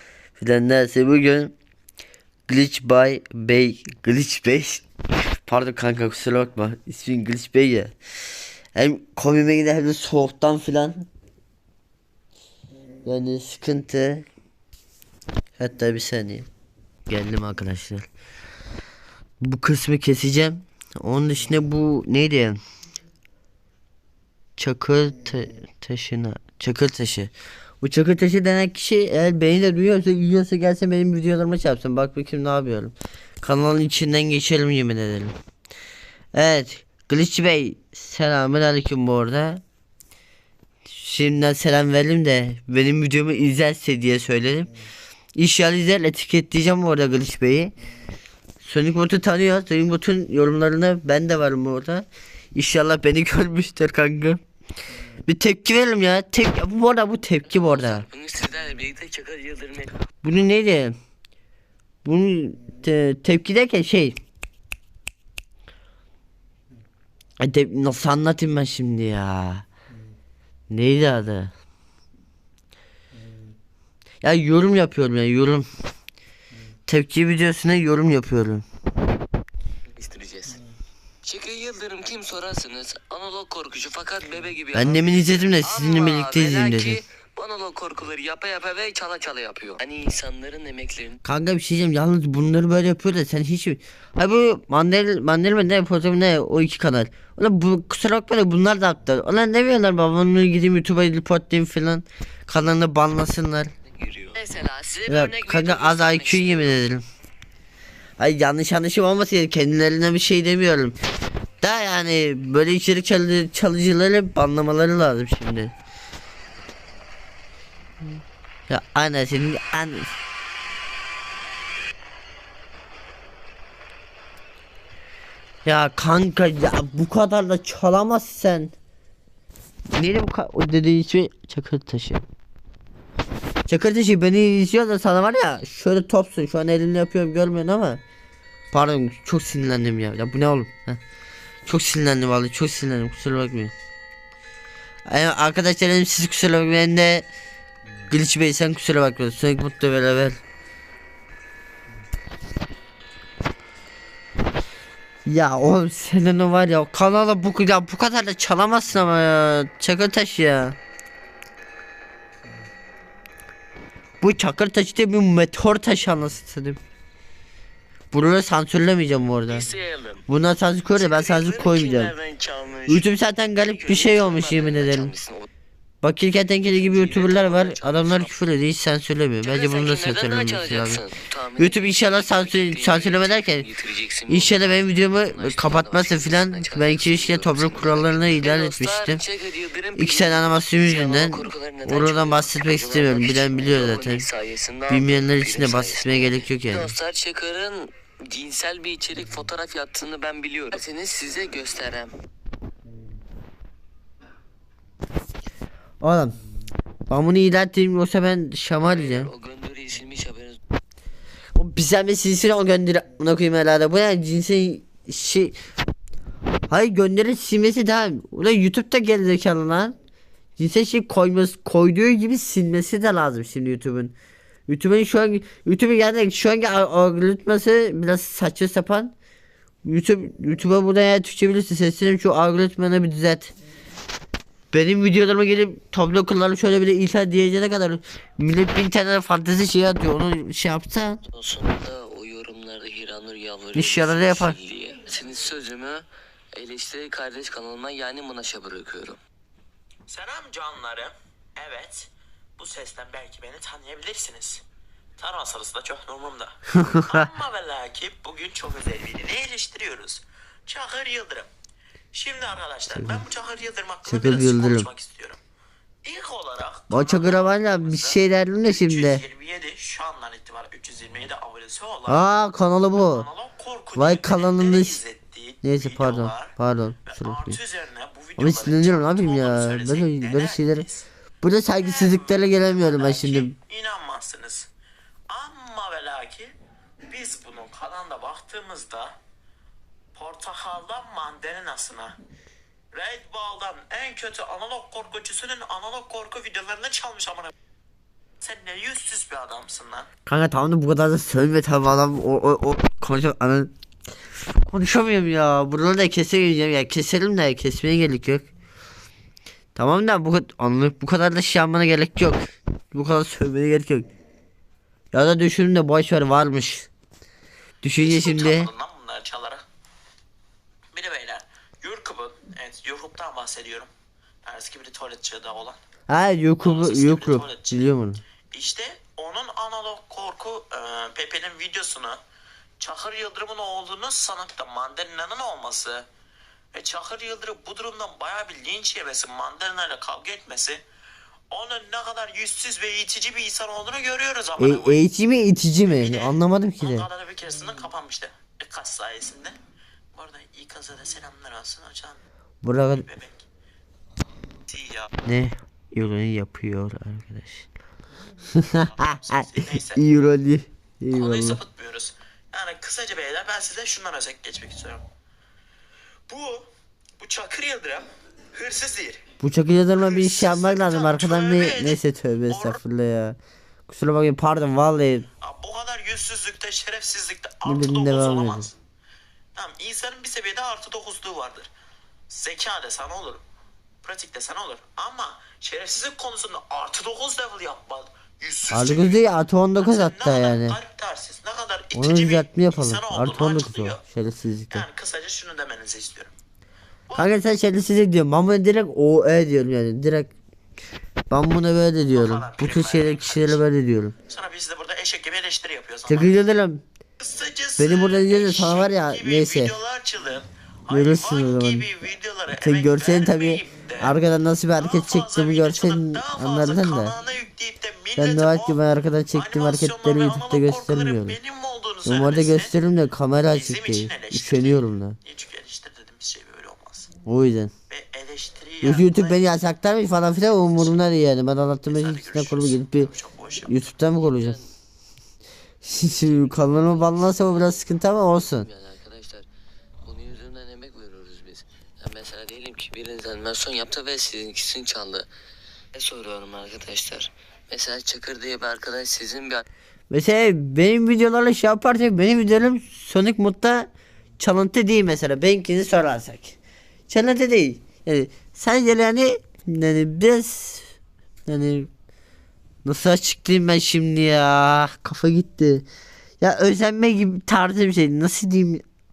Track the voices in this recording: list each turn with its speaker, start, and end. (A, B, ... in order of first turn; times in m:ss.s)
0:00.4-0:01.5 A
0:02.5-0:04.9 A
0:05.5-0:07.9 A
0:08.8-0:11.1 A
0:13.0-0:14.3 A
0:15.6-0:16.5 A
0:17.1-0:18.0 A
0:19.4-0:22.6 A
0:24.6-0:35.3 A
0:36.3-0:39.6 A
0:40.9-0:44.7 A
0:45.4-0:47.7 A
0:48.6-0:54.4 A
0:55.3-0:58.0 A
0:57.5-1:00.0 B
1:00.2-1:01.0 A
1:02.0-1:04.2 A
1:07.4-1:09.7 A
1:10.7-1:11.5 A
1:14.2-1:15.7 A
1:16.9-1:18.6 A
1:19.9-1:20.6 B
1:21.2-1:31.2 B
1:24.7-1:27.0 A
1:31.2-1:43.7 A
1:43.9-1:46.8 B
1:45.1-1:47.0 A
1:48.2-1:51.0 A
1:51.6-1:55.7 A
1:58.7-2:00.1 A
2:05.6-2:08.7 A
2:09.9-2:12.2 A
2:13.7-2:18.0 A
2:18.7-2:21.0 A
2:21.7-2:23.7 A
2:25.1-2:27.3 A
2:28.1-2:30.4 A
2:35.3-2:40.8 A
2:44.2-2:46.8 A
2:48.1-2:49.7 A
2:49.5-2:50.3 B
2:50.3-2:52.1 A
2:50.9-2:53.1 B
2:52.9-2:55.1 A
2:53.6-2:55.5 B
2:56.0-3:01.0 A
2:56.7-2:58.3 B
2:57.3-2:58.1 C
2:59.4-3:22.2 B
3:01.6-3:03.7 A
3:04.3-3:09.2 A
3:10.0-3:14.3 A
3:14.9-3:17.0 A
3:26.0-3:26.4 A
3:27.1-3:29.3 A
3:28.8-3:30.6 B
3:31.6-3:35.6 A
3:36.7-3:40.0 A
3:40.6-3:44.2 A
3:44.7-3:49.1 A
3:49.8-3:53.5 A
3:54.7-4:01.2 A
4:01.3-4:09.2 B
4:03.8-4:04.6 A
4:10.1-4:14.6 C
4:15.2-4:21.5 C
4:16.7-4:17.3 A
4:22.1-4:25.4 C
4:23.0-4:23.2 A
4:24.1-4:24.9 A
4:26.0-4:32.3 C
4:26.9-4:29.2 A
4:32.1-4:33.3 A
4:33.0-4:36.5 C
4:34.0-4:35.0 A
4:35.6-4:37.6 A
4:37.0-4:40.9 C
4:38.4-4:43.5 A
4:41.8-4:44.7 C
4:45.3-4:46.5 C
4:47.1-4:49.2 C
4:50.1-4:52.2 C
4:52.9-4:57.5 C
4:58.4-5:00.1 C
5:00.3-5:03.7 A
5:04.6-5:08.5 A
5:09.8-5:14.1 A
5:15.1-5:16.9 A
5:17.8-5:18.7 A
5:17.9-5:19.6 C
5:20.9-5:23.9 C
5:24.4-5:25.8 C
5:26.1-5:28.2 A
5:26.6-5:27.8 C
5:28.5-5:32.2 C
5:32.8-5:36.1 C
5:36.7-5:40.8 C
5:41.5-5:45.0 C
5:44.6-5:47.1 A
5:45.9-5:49.6 C
5:50.1-5:52.2 C
5:52.6-5:53.0 A
5:52.9-5:53.4 C
5:54.7-5:55.1 C
5:55.2-5:57.7 A
5:58.5-6:01.6 A
5:58.8-6:00.0 C
6:01.1-6:05.0 C
6:06.3-6:09.2 C
6:09.4-6:15.3 A
6:10.0-6:12.8 C
6:15.4-6:18.8 C
6:17.6-6:18.7 A
6:19.6-6:21.7 C
6:22.3-6:23.4 C
6:24.0-6:29.2 C
6:28.7-6:30.8 A
6:29.8-6:34.0 C
6:31.9-6:34.8 A
6:34.7-6:36.3 C
6:37.1-6:37.4 C
6:37.2-6:40.3 A
6:41.3-6:44.1 A
6:42.1-6:43.7 C
6:44.3-6:46.4 C
6:46.1-6:46.8 A
6:47.2-6:54.2 C
6:47.8-6:49.7 A
6:50.9-6:51.9 A
6:52.6-6:57.1 A
6:54.8-7:02.8 C
6:58.2-7:01.4 A
7:02.0-7:05.2 A
7:03.5-7:07.1 C
7:07.2-7:07.7 A
7:07.9-7:09.4 C
7:08.8-7:13.1 A
7:10.7-7:11.0 C
7:11.9-7:13.8 C
7:13.6-7:14.6 A
7:14.2-7:14.7 B
7:15.8-7:18.7 A
7:16.0-7:19.5 B
7:20.0-7:25.3 B
7:25.9-7:29.6 B
7:30.1-7:36.6 A
7:37.1-7:40.9 A
7:41.5-7:41.9 A
7:42.8-7:45.9 A
7:46.4-7:48.8 A